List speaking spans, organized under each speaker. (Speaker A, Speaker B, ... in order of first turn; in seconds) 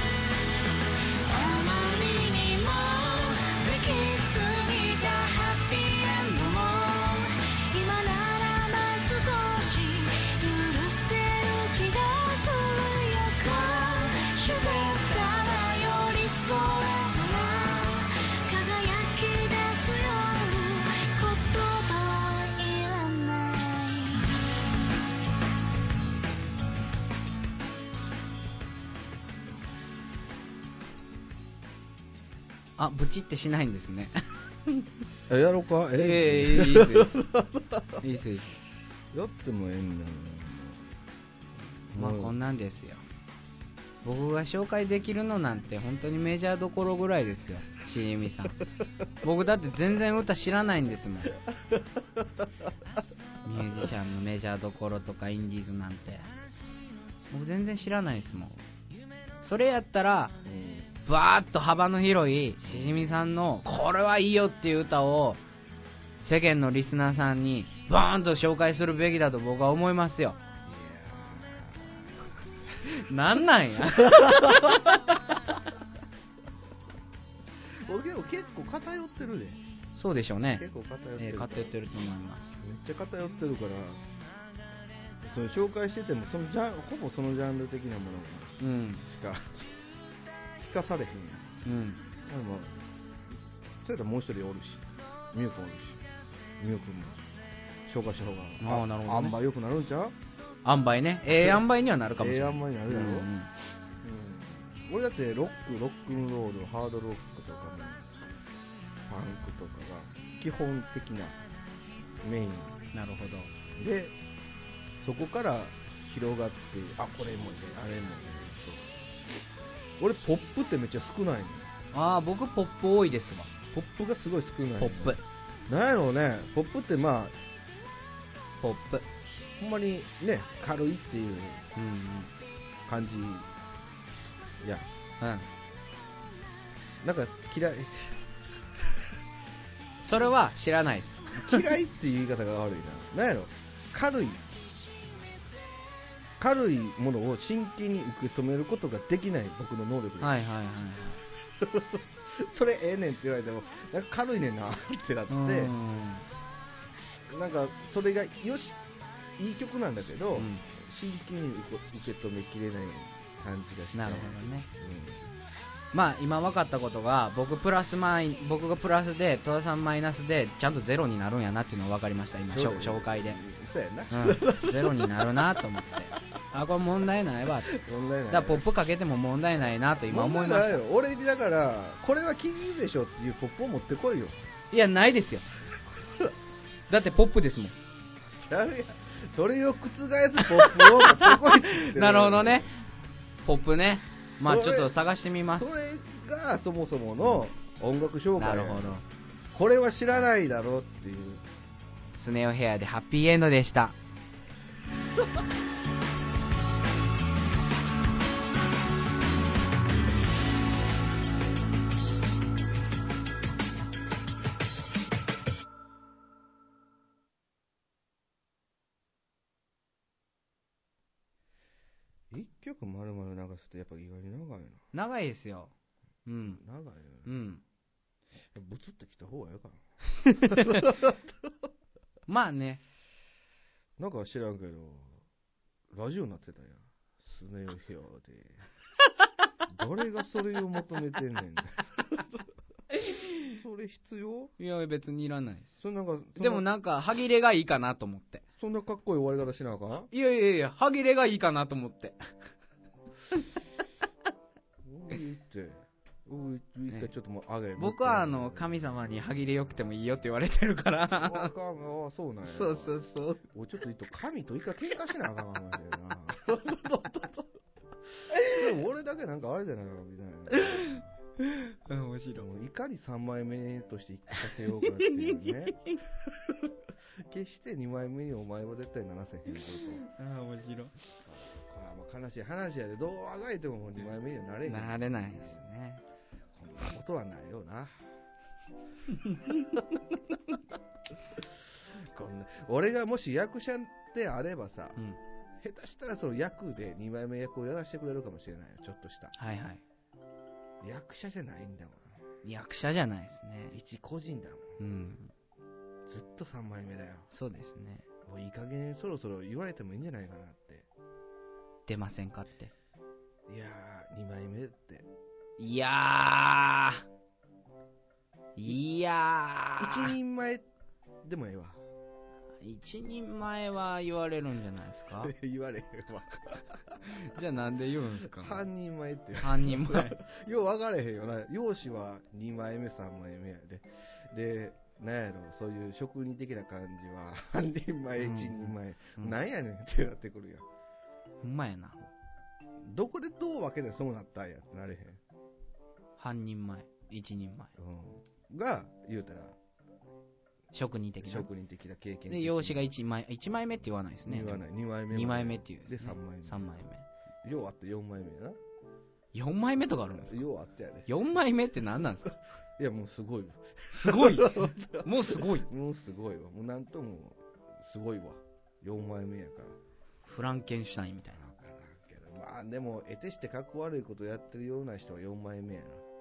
Speaker A: 1.2-24.3
Speaker B: 32.8-34.2, 36.0-37.2, 38.0-38.6, 41.9-43.0, 44.0-48.6, 49.2-51.4, 53.4-56.2, 57.3-58.6, 59.4-60.4, 61.0-65.4, 66.2-70.4, 72.8-75.3, 80.0-80.6, 81.2-82.6, 88.6-89.0, 91.6-92.0, 98.6-99.4, 100.6-103.5, 112.9-113.5, 121.9-123.6, 124.8-125.2, 128.6-129.1, 131.8-132.3, 135.2-135.5, 140.0-141.7, 150.2-151.2, 155.3-156.2, 160.3-160.6, 163.9-164.7, 165.9-173.4, 174.1-177.8, 178.3-180.8, 184.7-185.5, 186.9-187.8, 190.5-192.8, 193.4-195.7, 198.4-199.0, 202.2-203.9, 224.9-225.7, 226.2-226.6, 227.2-227.6, 230.1-231.0, 232.3-232.8, 243.1-243.5, 244.6-245.7, 246.4-248.4, 250.1-252.2, 257.8-261.5, 262.4-263.4, 268.3-268.6, 270.5-272.4, 274.6-276.0, 280.0-280.9, 284.7-286.0, 299.3-299.8, 302.4-303.8, 304.8-305.3, 307.3-308.0, 311.9-312.7, 315.6-317.0, 318.6-320.1, 322.6-325.3, 327.0-328.6, 329.4-330.2, 338.2-339.3, 341.4-342.1, 346.2-347.7, 350.7-351.5, 352.3-357.1, 359.3-360.3, 361.1-362.3, 363.9-365.7, 370.2-371.4
Speaker C: 35.3-38.0, 39.1-40.8, 41.9-42.3, 51.5-52.5, 60.4-60.9, 62.6-63.3, 70.6-72.2, 74.0-75.2, 77.8-79.6, 80.5-81.7, 82.6-84.0, 85.2-89.7, 90.6-91.6, 92.2-92.8, 93.8-96.0, 96.6-97.3, 97.8-100.1, 101.3-101.6, 102.2-103.3, 104.0-108.2, 109.1-111.4, 112.2-112.8, 113.8-114.1, 115.0-119.4, 120.0-121.7, 123.7-127.4, 129.6-131.7, 132.8-133.5, 134.6-134.9, 137.0-138.2, 141.4-144.5, 146.4-150.3, 151.6-155.7, 157.3-158.8, 159.4-165.2, 172.4-175.2, 177.7-178.7, 180.1-184.4, 188.3-192.7, 194.4-194.9, 195.5-198.9, 199.5-201.4, 222.3-224.8, 226.5-227.4, 228.5-229.8, 230.4-231.5, 234.0-235.2, 235.9-238.7, 239.7-242.4, 243.4-244.5, 245.8-246.7, 248.6-250.1, 254.8-258.9, 261.1-267.5, 268.3-271.1, 272.4-275.8, 277.2-280.0, 281.2-285.6, 286.5-288.0, 291.4-295.0, 295.6-299.3, 300.8-302.2, 303.7-304.8, 306.1-307.3, 308.2-310.9, 313.5-315.1, 319.8-320.6, 321.2-321.8, 325.2-327.2, 328.2-340.6, 342.8-345.2, 347.8-349.6, 351.2-352.9, 354.2-356.8, 357.4-358.6, 360.1-361.1, 362.8-369.8, 371.4-376.0